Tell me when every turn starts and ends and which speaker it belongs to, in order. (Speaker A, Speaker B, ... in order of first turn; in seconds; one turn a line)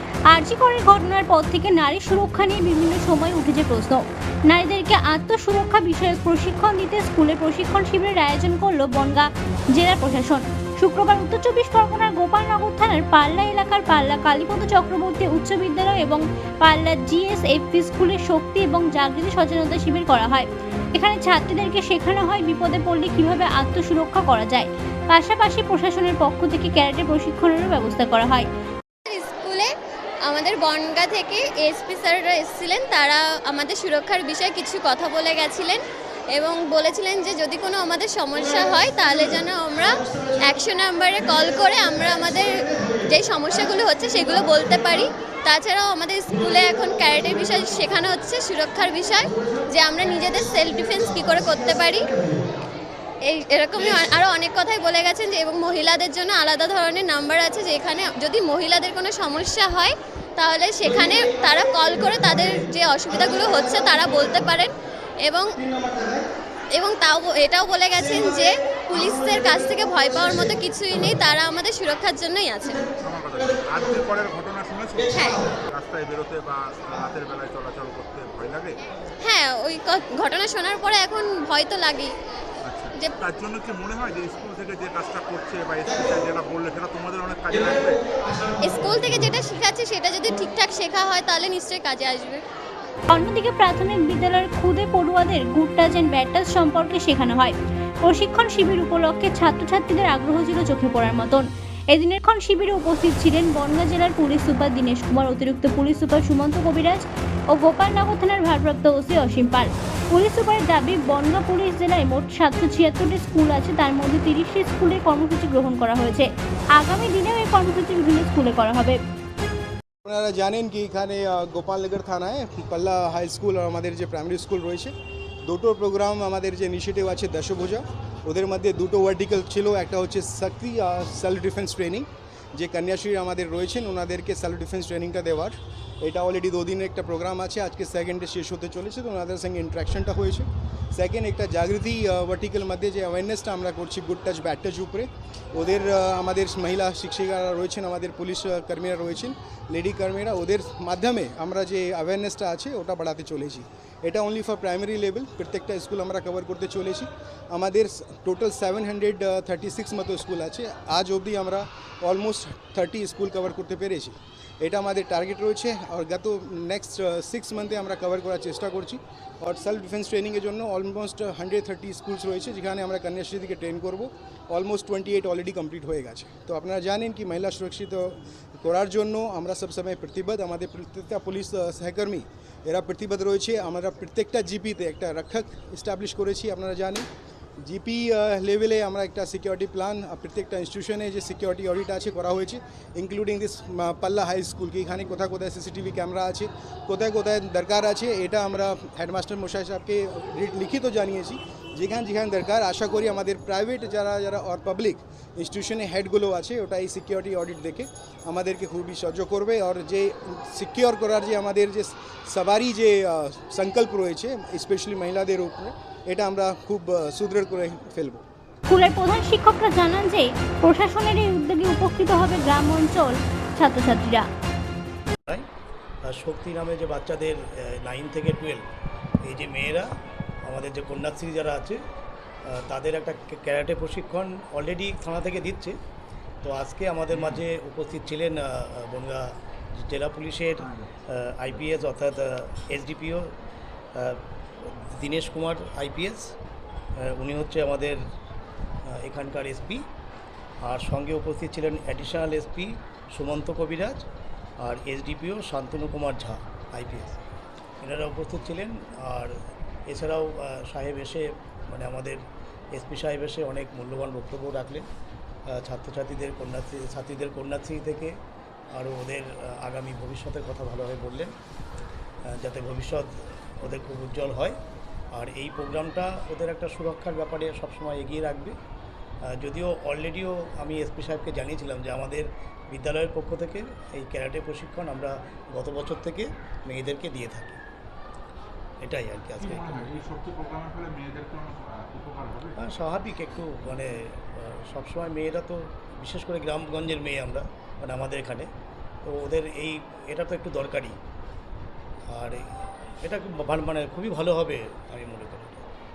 Speaker A: 0.3-28.5
Speaker B: 29.1-29.7
Speaker B: 30.3-35.8
Speaker B: 36.3-52.2
Speaker B: 53.2-66.1
Speaker B: 66.8-72.9
Speaker C: 73.0-78.7
Speaker B: 75.1-75.4
Speaker B: 79.2-82.1
Speaker C: 82.7-87.9
Speaker B: 88.6-92.4
Speaker A: 93.1-119.0
Speaker D: 120.0-124.9
Speaker D: 125.5-187.1
Speaker D: 187.6-218.2
Speaker A: 218.7-224.3
Speaker E: 226.1-228.7
Speaker E: 229.2-229.9
Speaker E: 230.4-231.8
Speaker E: 232.5-235.8
Speaker E: 236.4-243.3
Speaker E: 243.9-246.3
Speaker E: 247.0-248.0
Speaker E: 248.8-249.8
Speaker E: 250.6-254.0
Speaker E: 254.6-257.2
Speaker E: 257.8-262.2
Speaker E: 262.7-264.9
Speaker E: 265.5-268.1
Speaker E: 268.7-271.3
Speaker E: 272.3-274.6
Speaker E: 275.1-278.6
Speaker E: 279.3-287.6
Speaker E: 288.8-289.8
Speaker C: 289.4-292.6
Speaker E: 292.6-298.5
Speaker E: 299.1-301.0
Speaker E: 302.1-305.7